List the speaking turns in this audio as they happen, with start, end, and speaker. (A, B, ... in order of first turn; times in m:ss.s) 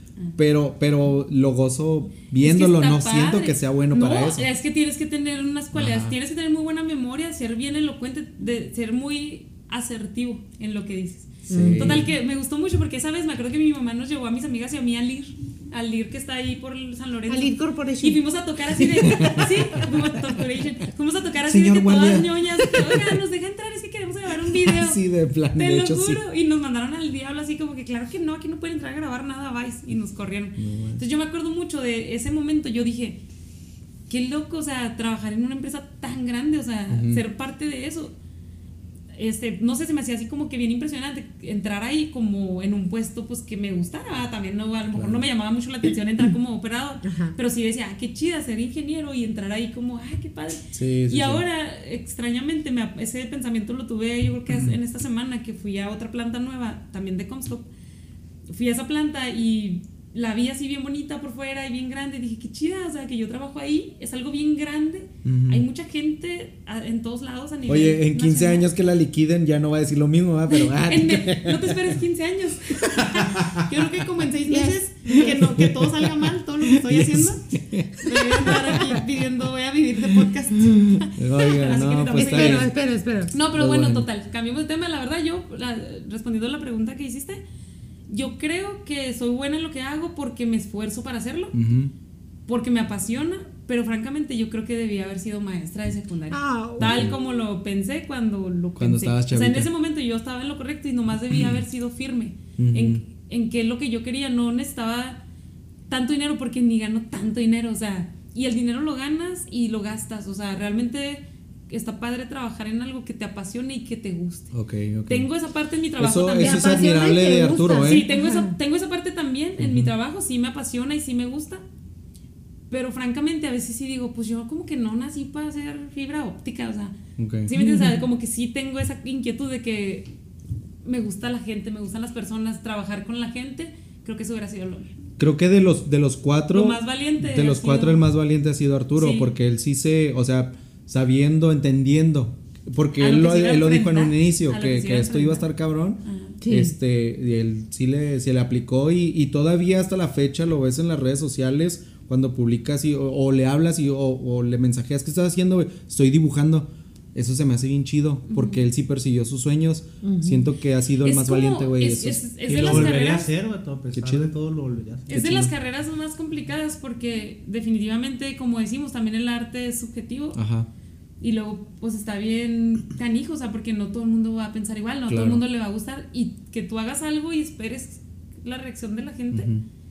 0:00.4-0:04.5 A
0:02.4-0:25.0 B
0:05.7-0:06.2 A
0:11.4-0:12.1 A
0:11.5-0:12.0 C
0:17.3-0:19.8 C
0:19.1-0:19.5 A
0:21.4-0:23.1 A
0:24.5-0:26.2 A
0:25.5-0:33.2 B
0:30.6-0:31.0 A
0:34.1-0:38.1 B
0:36.9-0:37.2 A
0:39.2-0:57.7 B
0:44.9-0:45.2 A
0:47.0-0:47.4 C
0:50.7-0:51.4 A
0:58.5-1:08.7 B
1:05.2-1:05.6 A
1:07.7-1:12.0 A
1:10.5-1:17.4 B
1:13.0-1:13.6 A
1:14.5-1:15.5 C
1:15.1-1:19.0 A
1:18.0-1:22.7 B
1:20.7-1:22.7 A
1:22.1-1:23.3 C
1:23.3-1:27.4 B
1:23.5-1:24.1 A
1:28.1-1:31.6 B
1:31.5-1:31.9 A
1:32.5-1:45.2 B
1:36.3-1:37.2 C
1:36.8-1:37.2 A
1:38.8-1:39.7 A
1:42.6-1:43.0 A
1:45.9-1:54.5 B
1:54.5-1:55.3 A
1:55.1-1:57.0 B
1:56.0-1:58.1 A
1:56.4-1:58.6 C
1:57.8-2:01.6 B
1:59.6-1:59.9 A
2:02.7-2:10.1 B
2:07.2-2:07.5 A
2:07.5-2:08.0 C
2:10.8-2:14.9 B
2:15.2-2:42.9 A
2:16.5-2:18.0 B
2:18.9-2:19.3 B
2:23.0-2:25.5 B
2:26.0-2:26.4 B
2:26.4-2:26.7 C
2:38.3-2:38.6 B
2:40.0-2:40.5 C
2:41.0-2:43.3 B
2:42.5-2:45.2 D
2:43.9-2:44.3 A
2:45.1-2:45.5 A
2:45.1-2:50.4 B
2:50.3-2:50.7 A
2:51.2-2:59.5 B
2:55.1-2:55.4 A
2:59.3-2:59.6 A